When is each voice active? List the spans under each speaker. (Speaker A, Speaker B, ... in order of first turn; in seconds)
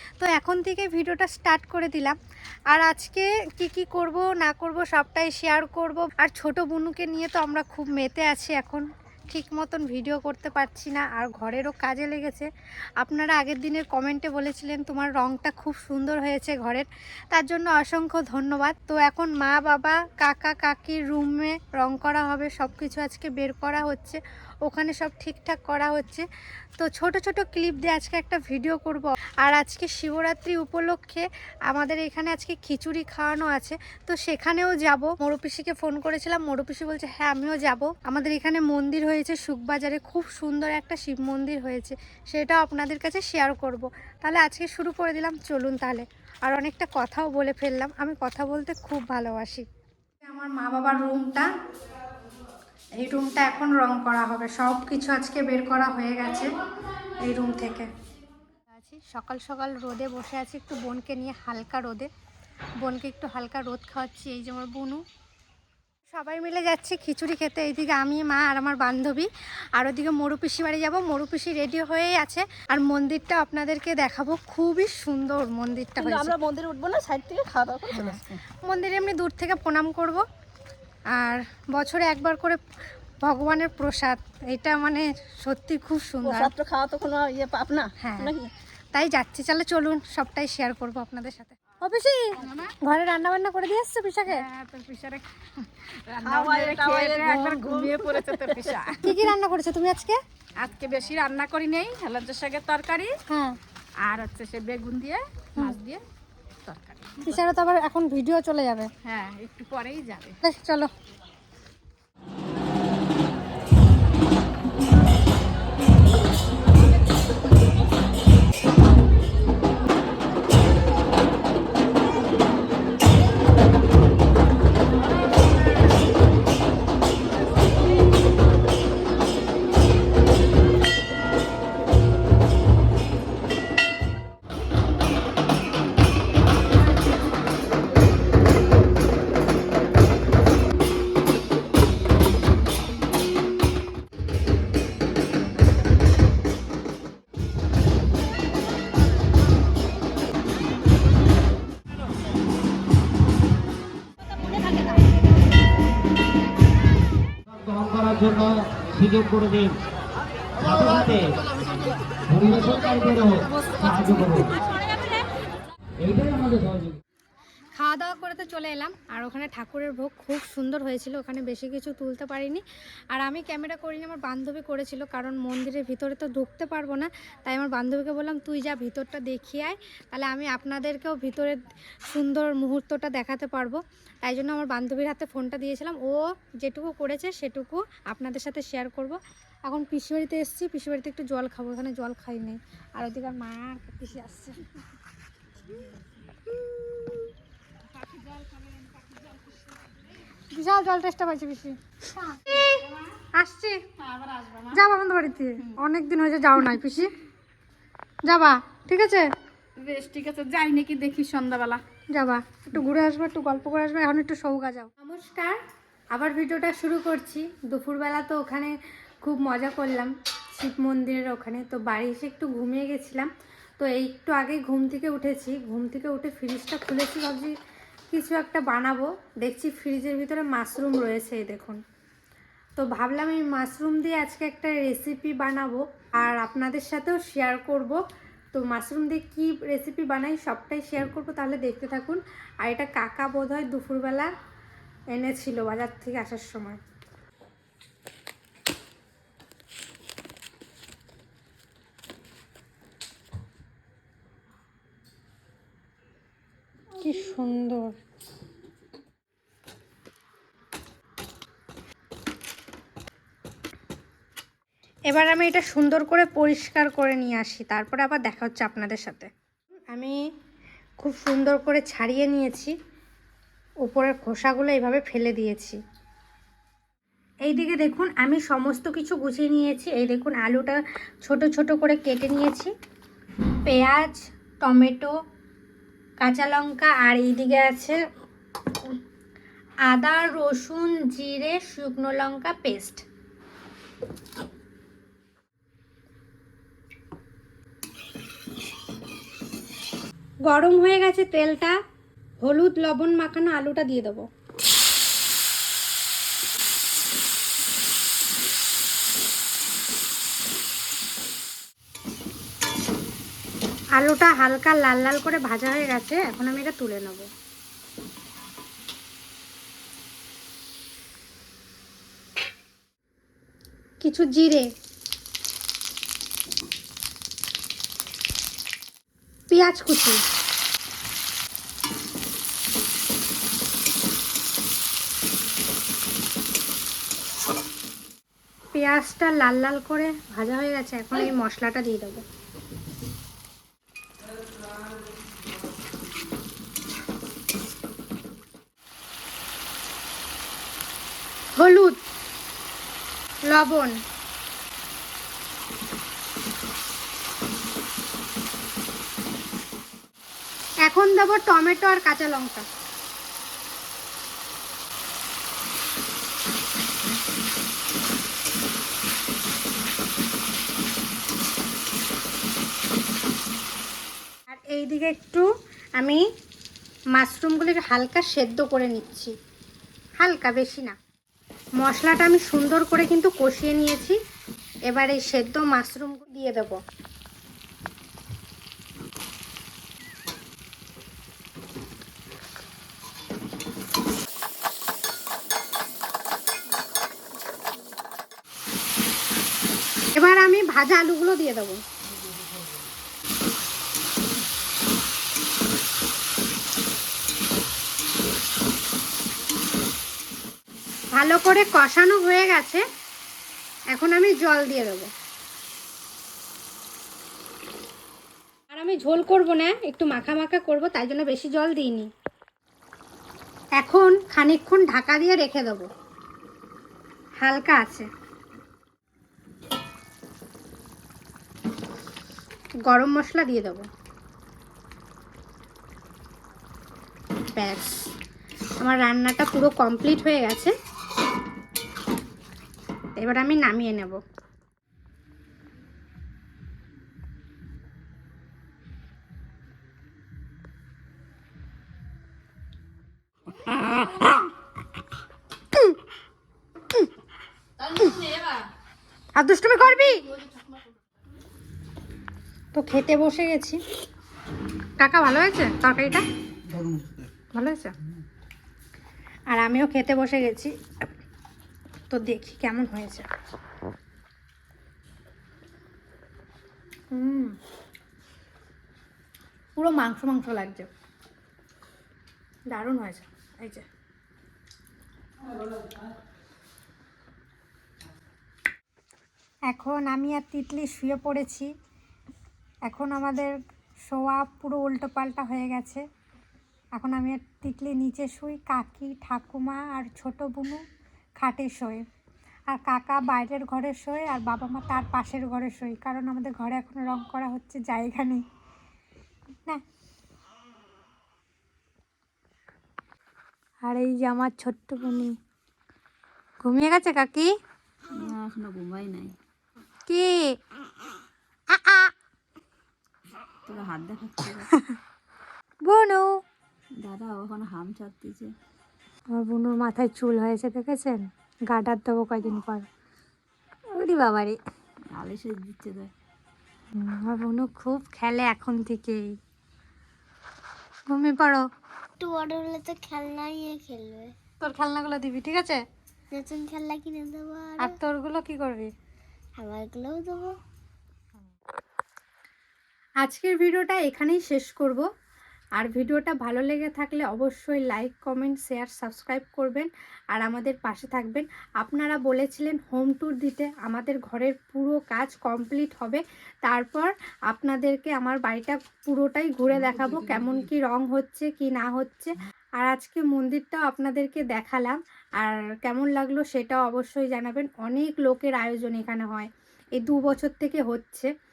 Speaker A: 0.2-2.2, 2.7-12.5, 13.0-26.3, 26.8-49.7, 50.2-51.5, 53.0-56.5, 57.2-57.9, 58.7-62.1, 62.8-65.0, 66.1-76.4, 77.9-80.2, 81.1-82.6, 83.2-86.5, 88.0-88.4, 88.9-94.4, 99.0-100.2, 103.3-103.6, 107.2-108.9, 110.4-110.9, 167.7-194.7, 196.6-197.2, 200.5-203.8, 204.7-207.1, 208.3-209.3, 212.1-215.6, 216.1-227.5, 228.1-231.8, 232.8-238.0, 238.5-244.3, 245.1-246.8, 257.0-258.0, 265.1-269.3, 269.9-270.2, 271.0-272.7, 273.9-275.8, 277.5-282.7, 283.6-285.1, 286.2-288.0, 289.9-293.0, 300.5-301.8, 302.4-304.2, 314.0-317.3, 324.0-324.7, 329.5-330.2, 338.7-342.2, 351.6-352.0, 353.5-354.0, 360.9-362.7, 374.5-375.5, 377.2-379.3, 380.2-380.9, 381.8-384.2, 384.9-386.8, 400.1-401.8, 411.1-412.8, 413.9-415.1, 418.7-422.1, 423.8-425.9, 427.4-428.1, 432.9-433.9, 437.5-438.1, 438.8-440.7, 443.2-444.2, 459.4-460.4, 462.7-463.8, 465.0-466.2, 467.5-467.9, 469.5-470.7, 472.1-473.3, 477.1-477.6, 479.8-480.9, 482.7-483.9, 489.7-491.7, 492.9-496.1, 496.9-500.8, 501.4-502.1, 502.7-508.4, 513.8-515.4, 516.6-517.5, 520.1-520.6, 521.7-522.1, 525.9-526.3, 529.3-532.9, 533.9-534.6, 537.0-539.4, 541.1-541.7, 544.6-545.8, 547.8-548.9, 553.2-555.0, 555.8-581.3
Speaker B: 76.0-78.2, 86.2-87.9, 96.2-98.8, 518.1-519.4, 523.7-524.7, 527.0-528.5, 535.1-536.1
Speaker C: 88.2-88.5, 542.2-544.4, 546.3-548.0, 549.6-550.5
Speaker D: 92.4-92.8, 94.3-99.1, 100.6-103.2, 104.0-106.0, 106.7-107.4, 109.0-110.4, 198.0-198.5, 204.0-204.8, 209.8-211.8
Speaker E: 157.6-159.8, 160.6-161.4, 162.3-164.6, 166.0-167.0